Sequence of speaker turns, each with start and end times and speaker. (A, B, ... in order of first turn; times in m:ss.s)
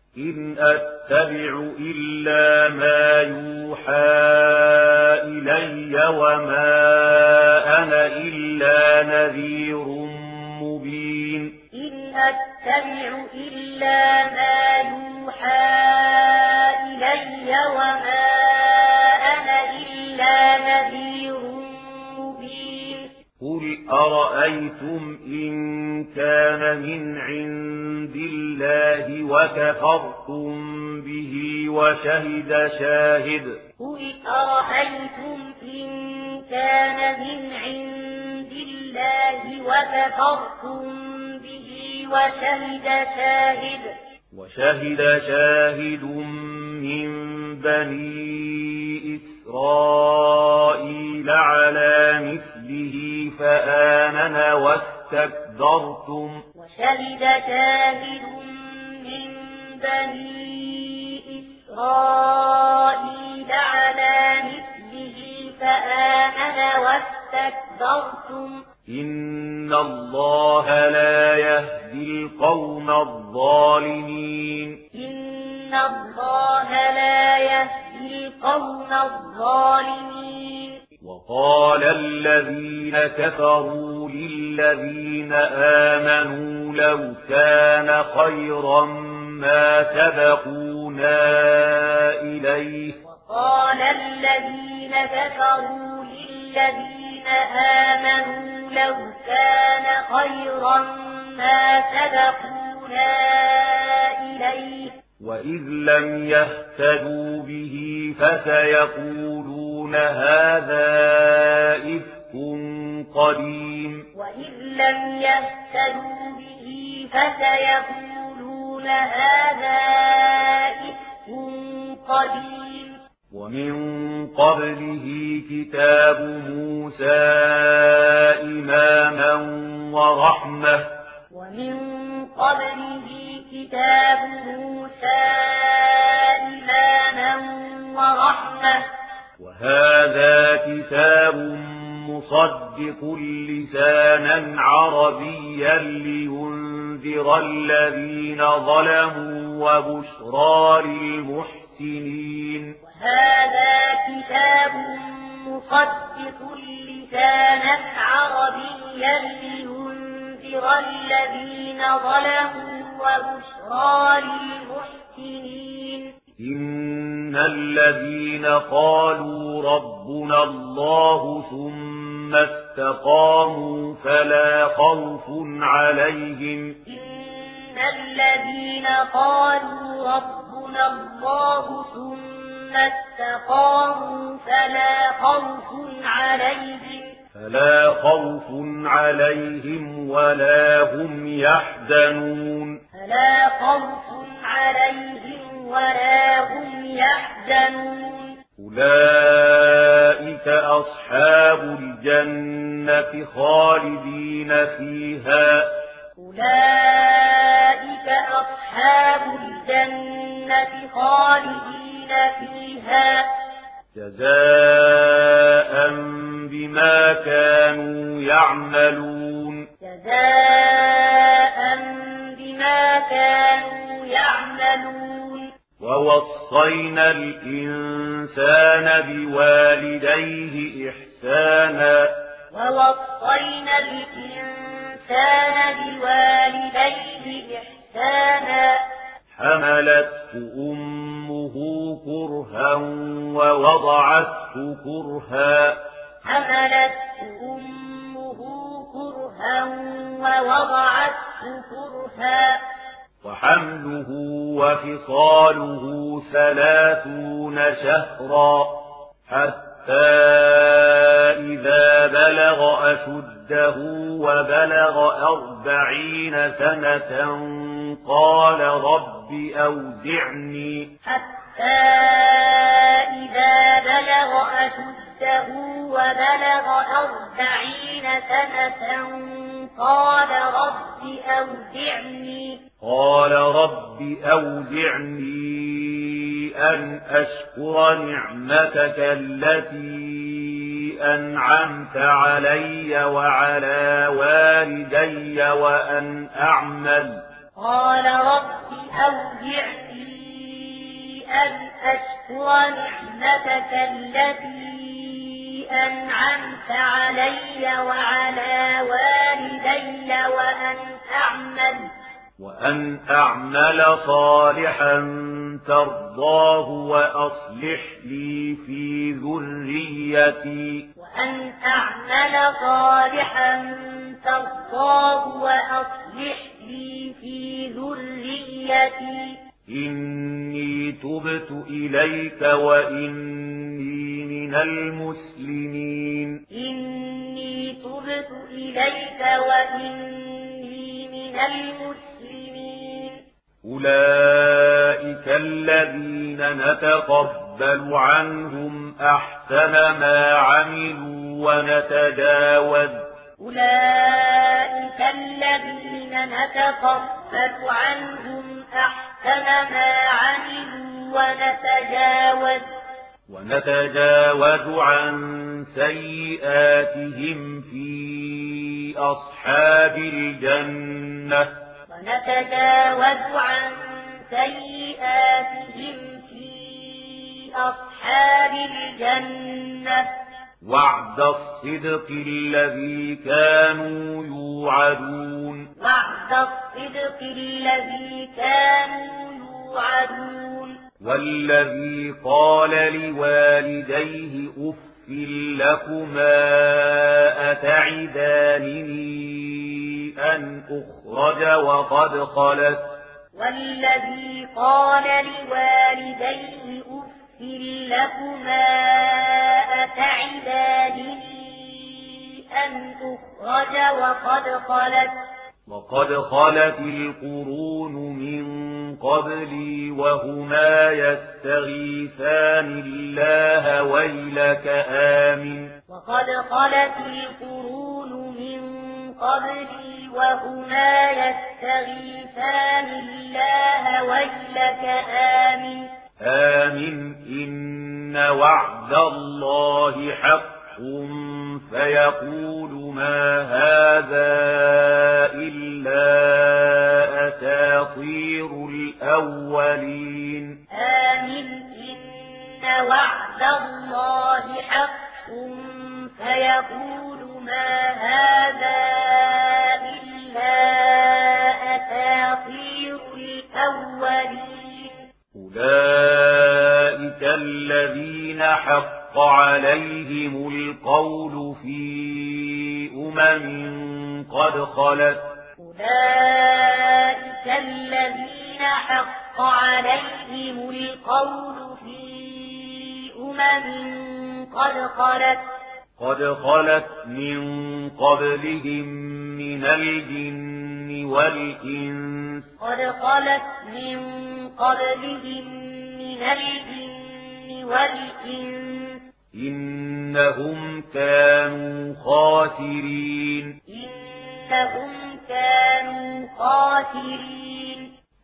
0:00.1-0:11.6 A
0:11.7-0:23.1 B
0:23.4-0:33.6 A
0:33.8-0:43.9 B
0:44.3-0:56.4 A
0:56.5-1:08.6 B
1:08.8-1:14.8 A
1:14.9-1:20.8 B
1:21.0-1:33.0 A
1:33.0-1:45.0 B
1:45.2-1:54.1 A
1:54.1-2:03.0 B
2:03.3-2:10.9 A
2:11.3-2:18.9 B
2:19.4-2:32.8 A
2:32.8-2:46.2 B
2:46.4-2:56.8 A
2:56.8-3:07.2 B
3:07.3-3:12.8 A
3:12.9-3:18.4 B
3:18.6-3:25.8 A
3:26.2-3:33.4 B
3:33.9-3:39.7 A
3:39.8-3:45.5 B
3:45.8-3:52.2 A
3:52.5-3:58.8 B
3:59.4-4:05.8 A
4:06.2-4:12.6 B
4:13.2-4:31.0 A
4:31.0-4:42.6 B
4:42.8-4:57.2 A
4:57.6-5:11.9 B
5:12.4-5:20.9 A
5:21.0-5:29.4 B
5:29.7-5:36.4 A
5:36.5-5:43.2 B
5:43.6-5:53.0 A
5:53.4-6:02.7 B
6:03.3-6:11.5 A
6:11.9-6:20.1 B
6:20.6-6:25.7 A
6:25.8-6:30.8 B
6:31.0-6:43.0 A
6:43.3-6:55.2 B
6:55.7-7:05.8 A
7:05.9-7:15.9 B
7:16.2-7:30.6 A
7:30.7-7:45.0 B
7:45.3-7:55.3 A
7:55.6-8:05.5 B
8:06.0-8:12.5 A
8:12.6-8:19.0 B
8:19.3-8:23.6 A
8:23.7-8:27.9 B